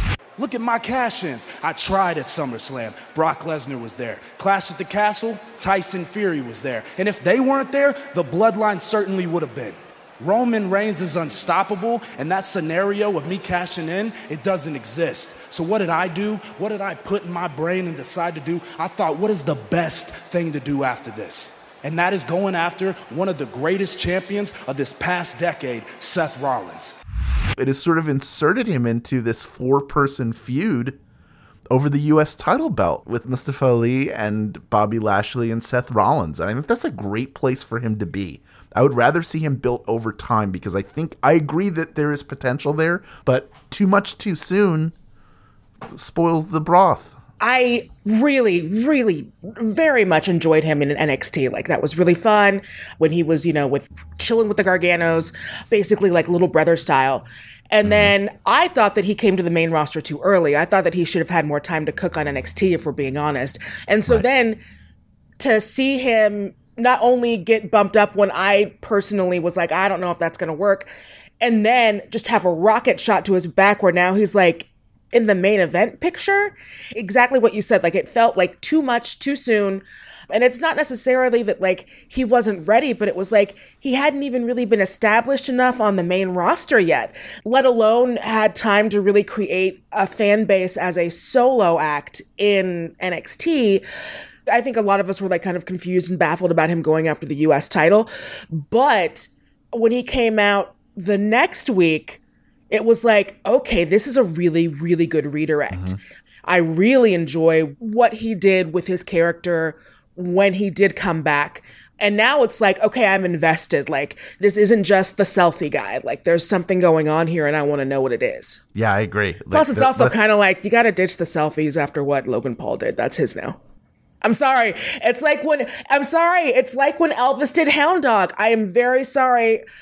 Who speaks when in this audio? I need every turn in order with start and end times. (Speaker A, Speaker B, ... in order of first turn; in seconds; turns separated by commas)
Speaker A: 0.4-26.9, Speaker B: 27.6-31.0, Speaker B: 31.7-44.9, Speaker B: 45.9-47.1, Speaker C: 47.4-64.6, Speaker B: 57.8-58.1, Speaker C: 65.4-70.9, Speaker C: 71.4-93.8, Speaker C: 94.5-106.0, Speaker B: 105.7-106.0, Speaker C: 106.5-118.6, Speaker B: 118.7-120.4, Speaker C: 119.5-123.6, Speaker C: 124.2-129.6